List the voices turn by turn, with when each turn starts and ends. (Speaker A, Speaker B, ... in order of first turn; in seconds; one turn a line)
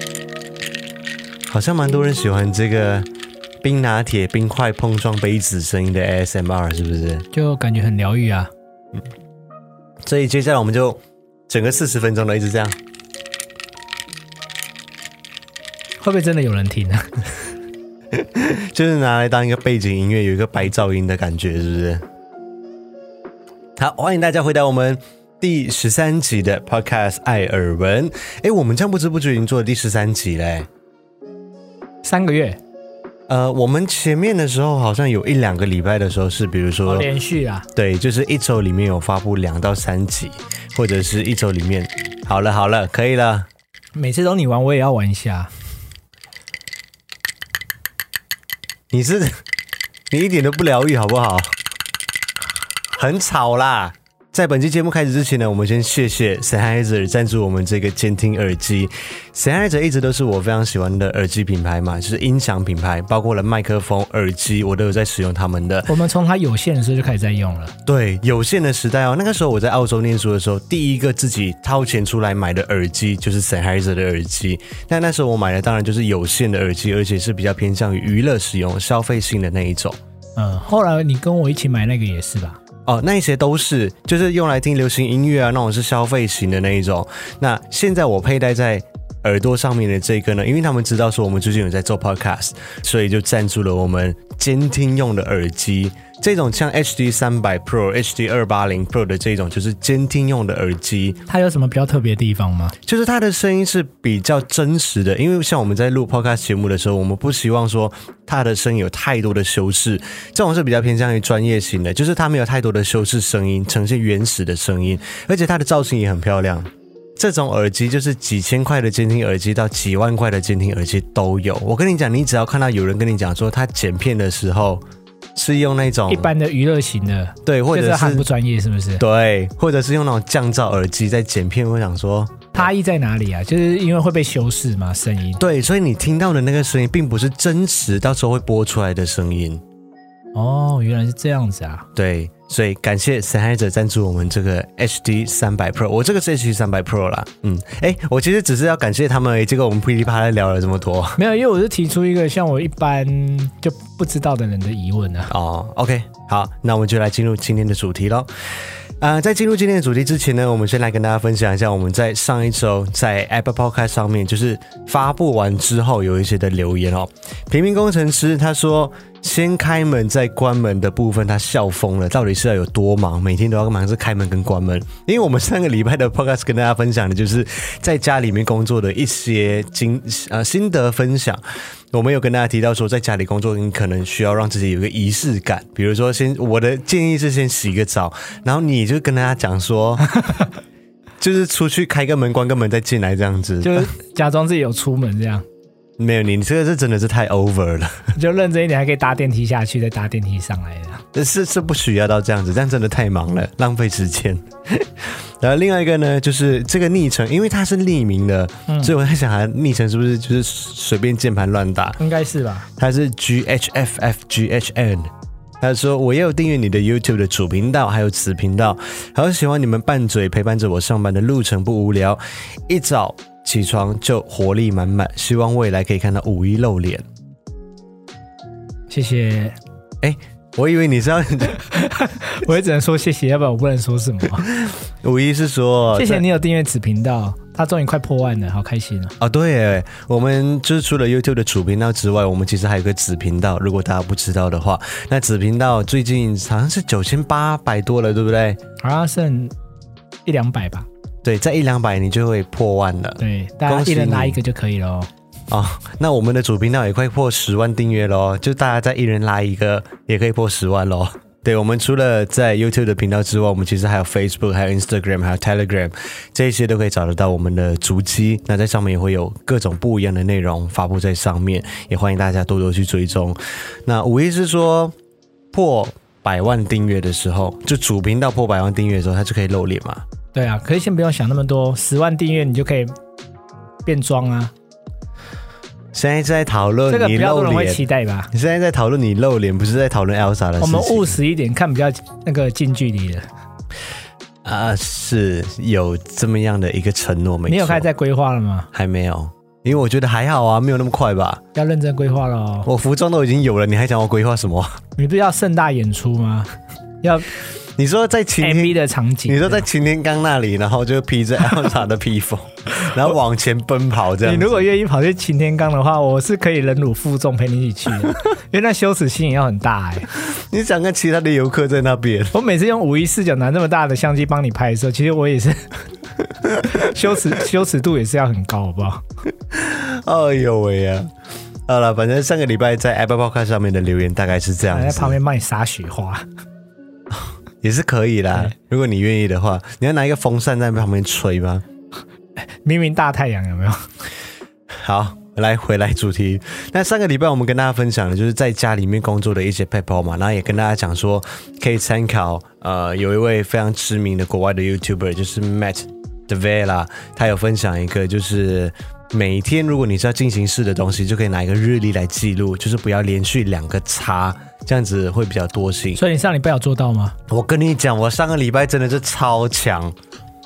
Speaker A: 1.5-3.1
Speaker A: 3.6-7.2
Speaker B: 7.3-8.5
Speaker A: 10.0-12.8
Speaker B: 16.0-17.2
Speaker A: 18.1-22.0
Speaker A: 23.8-30.7
Speaker B: 32.0-32.6
Speaker A: 33.3-37.1
Speaker B: 36.8-37.7
Speaker A: 37.7-43.5
Speaker B: 43.9-45.5
Speaker A: 48.9-49.4
Speaker A: 50.1-51.5
Speaker A: 53.0-65.9
Speaker B: 65.9-67.7
Speaker A: 67.8-80.0
Speaker B: 80.3-82.6
Speaker A: 82.8-101.2
Speaker B: 101.3-102.7
Speaker A: 102.8-124.8
Speaker A: 125.3-126.3
Speaker B: 126.1-129.0
Speaker A: 127.5-128.3
Speaker A: 129.0-132.7
Speaker B: 132.5-135.4
Speaker A: 135.4-139.6
Speaker B: 140.3-141.8
Speaker A: 141.9-151.2
Speaker B: 151.2-155.3
Speaker A: 155.3-181.4
Speaker A: 181.9-190.1
Speaker A: 191.2-193.9
Speaker B: 193.6-195.4
Speaker A: 196.0-198.1
Speaker B: 198.1-201.0
Speaker A: 201.1-212.0
Speaker B: 212.0-212.7
Speaker A: 212.8-227.0
Speaker B: 228.9-229.6
Speaker A: 230.0-231.6
Speaker B: 231.6-234.5
Speaker A: 234.4-236.2
Speaker B: 235.9-239.1
Speaker A: 239.2-248.6
Speaker B: 248.8-249.5
Speaker B: 250.2-250.9
Speaker A: 251.2-254.4
Speaker B: 253.2-255.1
Speaker A: 255.5-274.9
Speaker A: 275.5-280.0
Speaker B: 280.3-282.9
Speaker B: 283.8-284.5
Speaker A: 285.9-291.1
Speaker B: 286.9-288.3
Speaker B: 290.6-293.3
Speaker A: 294.4-297.9
Speaker B: 297.5-298.7
Speaker A: 298.7-301.4
Speaker B: 301.5-302.7
Speaker A: 302.6-304.8
Speaker B: 305.0-306.5
Speaker B: 307.0-307.3
Speaker A: 307.8-314.7
Speaker B: 308.4-309.6
Speaker B: 314.2-320.1
Speaker A: 320.1-322.3
Speaker B: 322.3-325.8
Speaker A: 326.4-326.8
Speaker B: 326.6-329.0
Speaker A: 329.5-331.1
Speaker A: 331.7-335.1
Speaker B: 334.7-336.2
Speaker A: 337.1-341.6
Speaker B: 342.6-343.9
Speaker A: 344.7-366.0
Speaker B: 365.9-367.1
Speaker A: 367.3-369.9